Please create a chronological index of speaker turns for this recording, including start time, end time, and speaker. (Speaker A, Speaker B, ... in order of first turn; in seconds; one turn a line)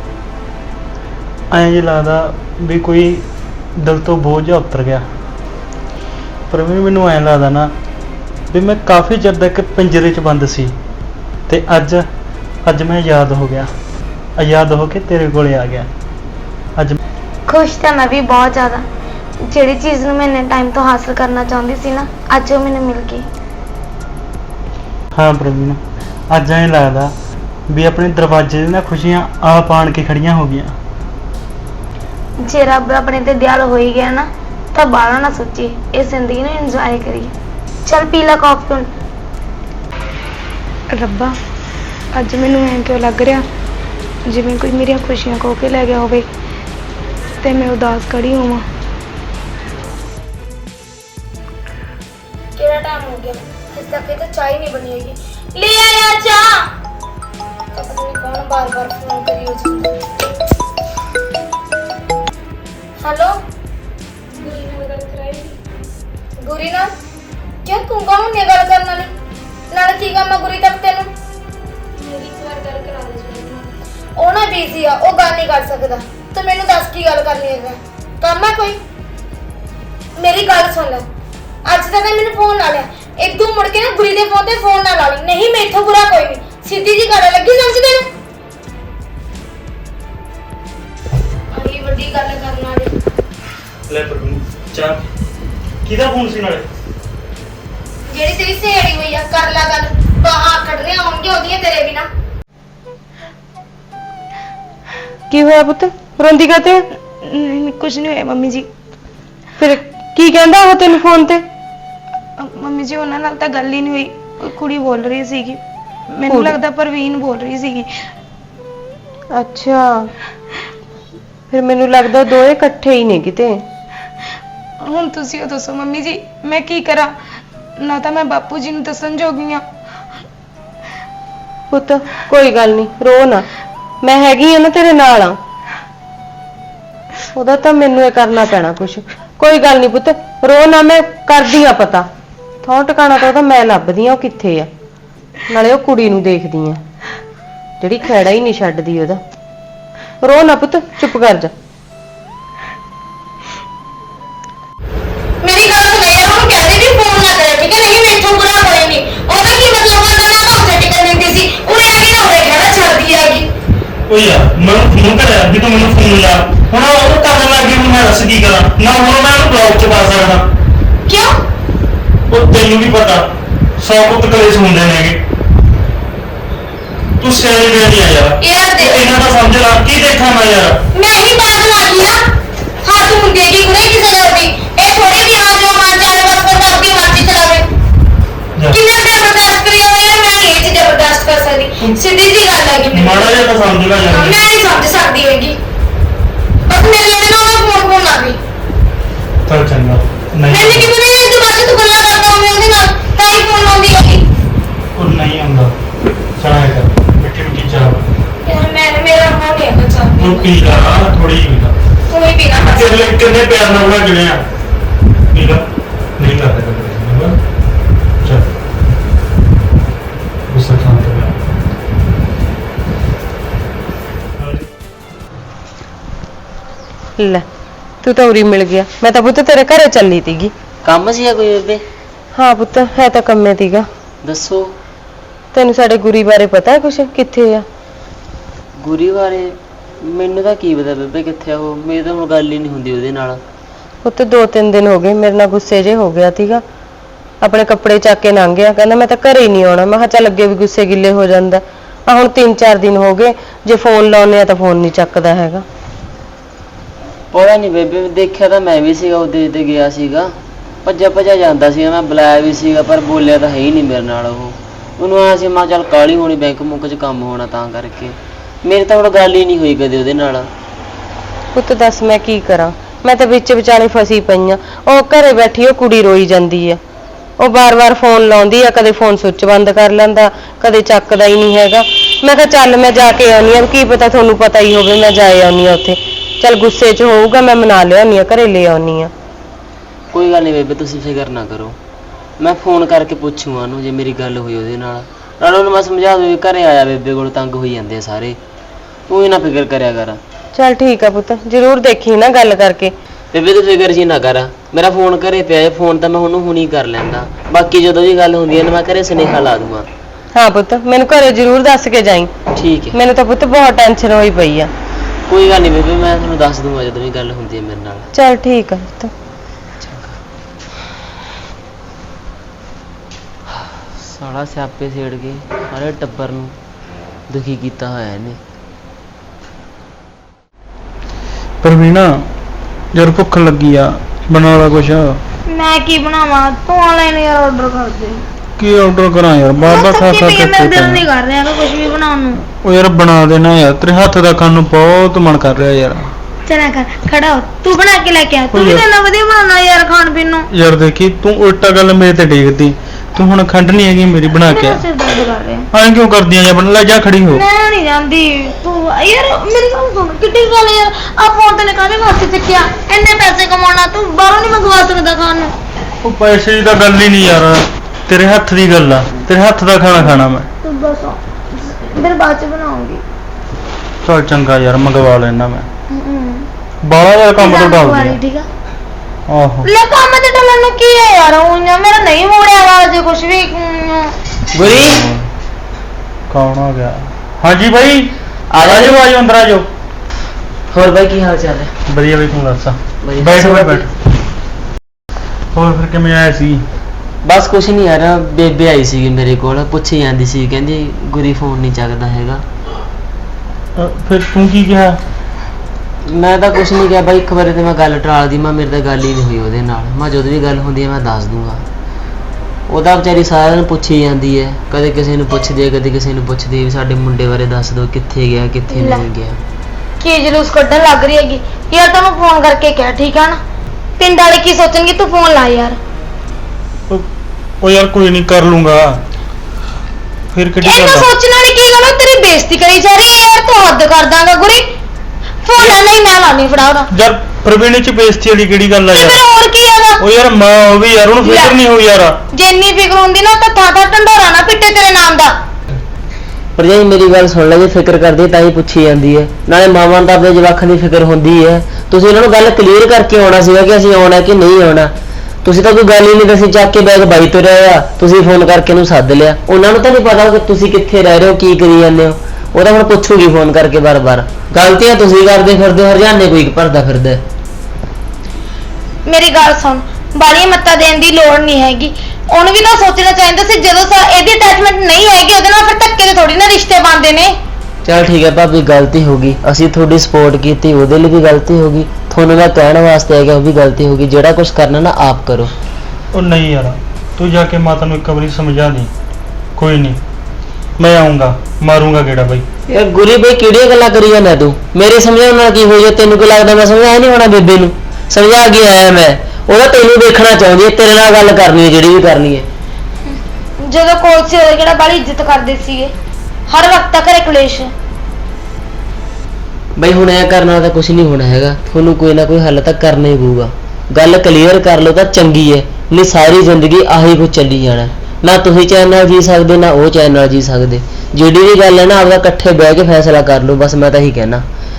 Speaker A: 1.5-3.2
Speaker A: 3.8-5.0
Speaker A: 6.5-7.7
Speaker A: 8.5-10.7
Speaker A: 11.5-12.1
Speaker A: 12.6-13.7
Speaker A: 14.4-15.9
Speaker B: 17.5-18.9
Speaker B: 19.4-23.2
Speaker A: 25.1-25.8
Speaker A: 26.3-27.1
Speaker A: 27.7-30.7
Speaker B: 32.4-37.3
Speaker B: 37.9-38.9
Speaker C: 40.9-41.4
Speaker C: 42.1-43.5
Speaker C: 44.2-46.2
Speaker C: 47.4-48.6
Speaker B: 52.5-56.6
Speaker B: 57.7-60.1
Speaker B: 63.0-63.4
Speaker C: 64.4-65.5
Speaker B: 65.1-65.4
Speaker B: 66.4-66.9
Speaker B: 67.6-69.1
Speaker B: 69.7-71.1
Speaker B: 72.0-72.8
Speaker C: 72.0-73.6
Speaker B: 74.2-78.8
Speaker B: 80.2-81.0
Speaker B: 81.6-88.0
Speaker B: 91.5-92.9
Speaker A: 93.9-95.1
Speaker A: 95.8-96.7
Speaker B: 98.1-102.1
Speaker D: 105.3-106.9
Speaker C: 107.2-108.7
Speaker D: 109.6-111.4
Speaker C: 112.4-115.6
Speaker C: 116.1-117.9
Speaker D: 116.3-116.6
Speaker D: 119.3-120.1
Speaker D: 121.5-123.6
Speaker C: 124.8-127.1
Speaker C: 127.8-129.6
Speaker D: 131.7-133.4
Speaker D: 134.0-135.4
Speaker D: 137.3-142.1
Speaker D: 142.6-144.7
Speaker D: 145.5-146.8
Speaker D: 147.8-149.2
Speaker D: 150.2-151.5
Speaker B: 155.4-163.5
Speaker A: 164.1-170.5
Speaker B: 171.1-171.3
Speaker A: 172.3-175.2
Speaker A: 177.2-180.8
Speaker B: 178.4-179.0
Speaker B: 180.9-182.2
Speaker B: 182.8-187.7
Speaker B: 188.7-193.4
Speaker A: 192.9-194.4
Speaker B: 194.1-195.6
Speaker B: 196.7-198.4
Speaker A: 199.4-200.9
Speaker B: 200.5-204.2
Speaker A: 204.9-205.7
Speaker A: 206.4-208.1
Speaker B: 208.4-210.5
Speaker A: 210.2-211.7
Speaker B: 212.1-213.1
Speaker A: 212.6-214.4
Speaker A: 215.3-215.7
Speaker A: 216.2-217.4
Speaker A: 218.2-218.5
Speaker A: 220.5-221.4
Speaker A: 224.4-224.7
Speaker D: 227.2-227.4
Speaker D: 228.0-230.5
Speaker E: 230.8-231.8
Speaker D: 232.3-233.8
Speaker E: 234.2-234.7
Speaker D: 235.5-237.6
Speaker E: 238.8-243.4
Speaker D: 244.0-246.6
Speaker D: 247.4-255.6
Speaker E: 257.3-260.3
Speaker E: 260.8-270.5
Speaker D: 271.5-276.8
Speaker D: 277.4-289.1
Speaker E: 290.1-291.8
Speaker E: 292.4-298.4
Speaker E: 299.1-300.2
Speaker D: 300.5-302.9
Speaker E: 303.3-309.9
Speaker D: 310.3-312.3
Speaker E: 312.5-313.0
Speaker D: 312.9-314.7
Speaker E: 315.3-318.1
Speaker D: 318.1-319.1
Speaker E: 319.8-320.1
Speaker E: 323.6-326.5
Speaker E: 327.3-328.4
Speaker A: 331.6-332.2
Speaker A: 332.9-335.2
Speaker B: 335.4-338.2
Speaker A: 338.6-341.1
Speaker B: 339.6-342.4
Speaker A: 342.5-346.1
Speaker B: 346.4-350.5
Speaker A: 348.5-348.9
Speaker A: 350.5-354.8
Speaker B: 354.4-355.7
Speaker A: 355.7-357.4
Speaker B: 357.3-365.5
Speaker A: 366.0-370.5
Speaker B: 370.0-373.0
Speaker A: 374.0-375.7
Speaker B: 375.9-376.5
Speaker A: 376.8-378.2
Speaker B: 377.4-378.4
Speaker A: 379.3-379.7
Speaker B: 379.6-384.1
Speaker E: 384.5-385.1
Speaker A: 386.3-389.6
Speaker E: 388.5-389.0
Speaker E: 390.7-391.7
Speaker A: 391.9-393.9
Speaker E: 393.0-393.9
Speaker A: 395.5-396.6
Speaker E: 397.2-402.4
Speaker A: 403.8-405.0
Speaker E: 406.1-411.6
Speaker E: 412.7-419.4
Speaker B: 418.7-419.1
Speaker B: 420.0-423.4
Speaker B: 424.0-425.8
Speaker A: 427.6-429.0
Speaker A: 430.3-431.1
Speaker B: 430.6-434.7
Speaker B: 435.4-436.9
Speaker A: 436.9-439.2
Speaker B: 438.9-440.0
Speaker A: 440.0-442.2
Speaker B: 441.2-441.6
Speaker B: 442.3-445.4
Speaker E: 446.6-454.9
Speaker E: 455.4-467.2
Speaker B: 469.1-477.4
Speaker E: 477.8-485.5
Speaker A: 486.1-488.9
Speaker A: 489.6-490.0
Speaker A: 490.8-492.4
Speaker E: 492.7-502.5
Speaker B: 503.6-505.9
Speaker B: 506.5-507.7
Speaker E: 509.8-524.4